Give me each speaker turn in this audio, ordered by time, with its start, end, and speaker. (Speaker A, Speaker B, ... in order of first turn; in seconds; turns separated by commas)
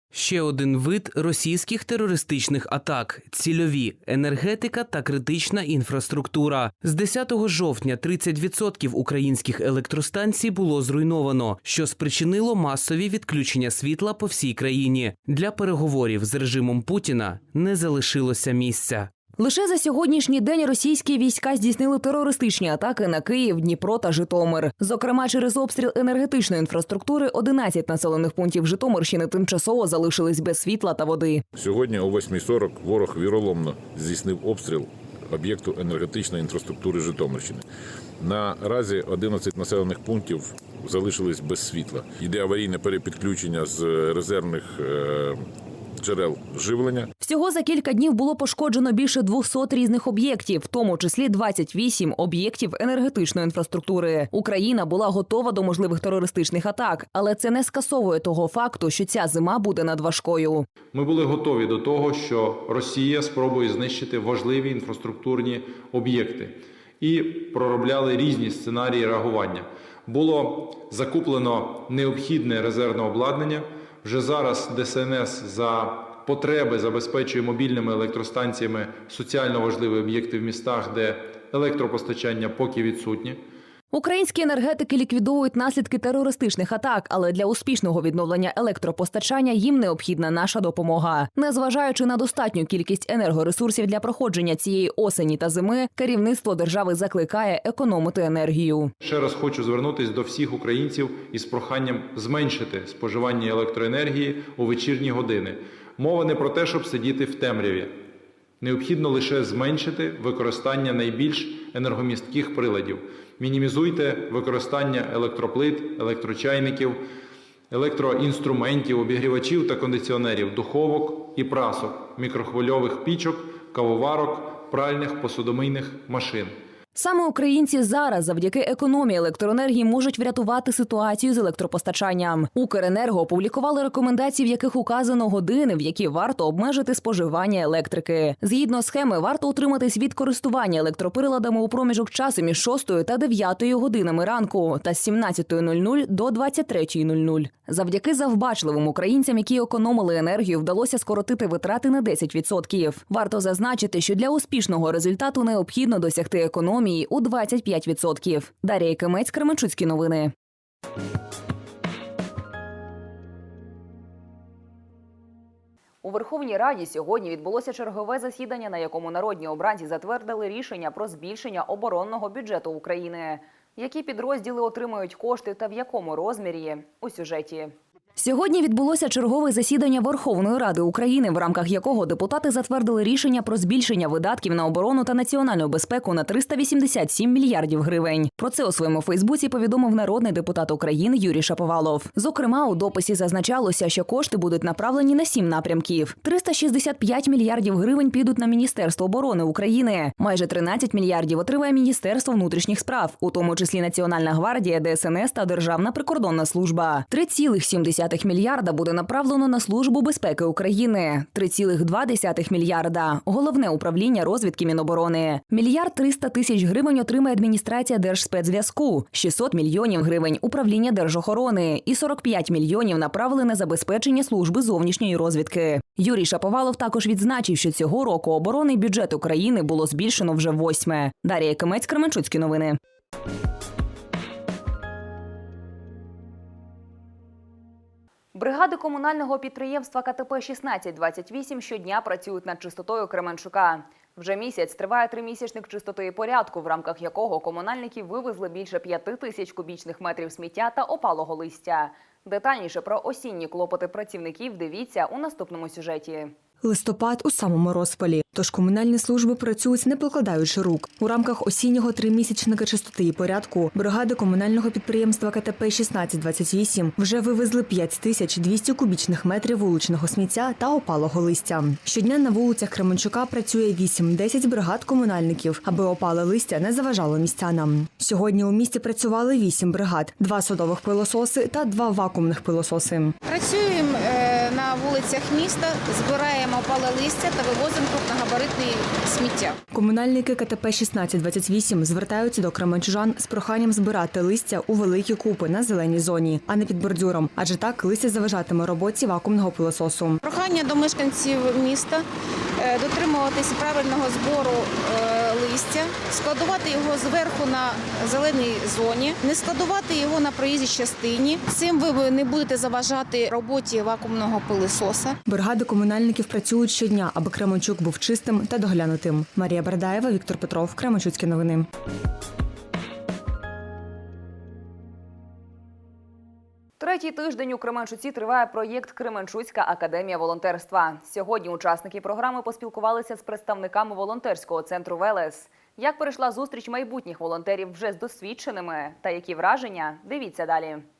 Speaker A: 0.1-19.1, Speaker B: 19.4-31.4, Speaker C: 31.6-37.6, Speaker C: 38.2-45.4, Speaker C: 46.0-47.1, Speaker B: 47.2-60.7, Speaker D: 60.9-83.4, Speaker B: 83.9-98.9, Speaker D: 99.0-108.0, Speaker D: 108.6-117.1, Speaker D: 117.7-126.6, Speaker B: 126.9-160.3, Speaker B: 166.0-232.8, Speaker B: 238.3-256.3, Speaker E: 256.6-283.1, Speaker F: 283.2-289.5, Speaker E: 289.7-300.2, Speaker F: 300.3-302.0, Speaker F: 302.6-315.1, Speaker E: 315.3-321.6, Speaker B: 326.8-340.8